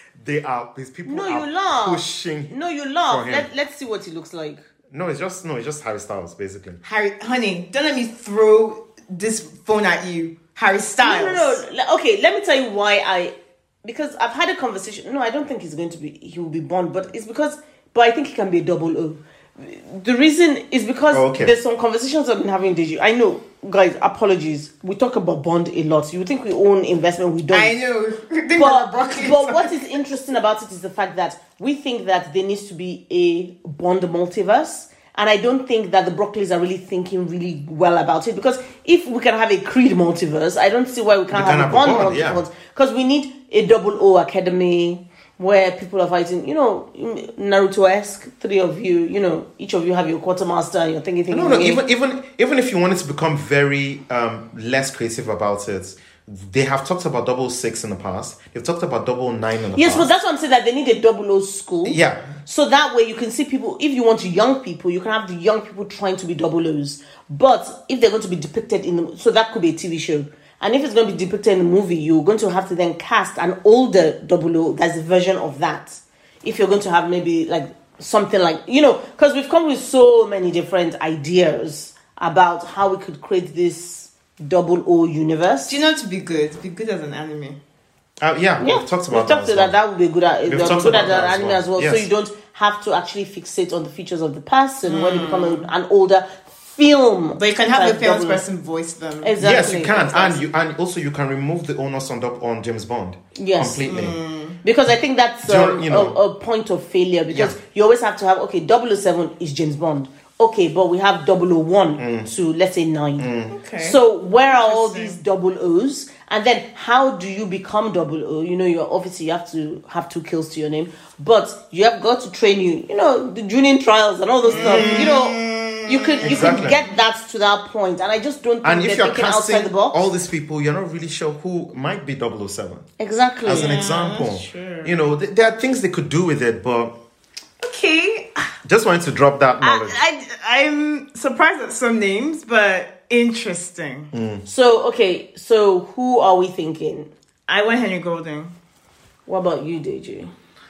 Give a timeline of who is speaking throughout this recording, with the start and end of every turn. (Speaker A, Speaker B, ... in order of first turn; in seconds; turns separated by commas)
Speaker A: 0.2-2.5, Speaker B: 1.0-4.6, Speaker A: 3.1-3.5, Speaker A: 4.9-6.8, Speaker C: 6.8-11.6, Speaker B: 11.0-27.8, Speaker A: 21.1-21.5, Speaker C: 27.5-29.8, Speaker B: 28.6-51.8, Speaker A: 41.3-42.4, Speaker A: 51.3-60.1, Speaker B: 59.7-85.7, Speaker A: 61.8-62.3, Speaker C: 85.7-87.6, Speaker A: 88.2-89.7, Speaker B: 88.6-98.4, Speaker A: 90.5-92.1, Speaker C: 94.8-95.7, Speaker C: 97.4-99.3, Speaker B: 99.2-100.4, Speaker A: 99.4-104.2, Speaker B: 103.3-103.9, Speaker C: 103.8-104.6, Speaker B: 104.6-130.0, Speaker A: 105.4-106.2, Speaker A: 107.3-107.6, Speaker A: 112.0-112.3, Speaker A: 113.2-113.6, Speaker C: 113.5-114.0, Speaker C: 114.6-115.2, Speaker C: 124.5-126.8, Speaker A: 124.5-125.1, Speaker A: 126.2-126.8, Speaker A: 128.6-132.9, Speaker B: 133.0-133.7, Speaker A: 133.4-137.0, Speaker C: 133.6-134.9, Speaker C: 137.6-138.5, Speaker A: 138.6-140.0, Speaker C: 139.8-144.1, Speaker A: 144.1-144.4, Speaker B: 144.4-147.1, Speaker C: 147.5-148.5, Speaker B: 149.3-150.3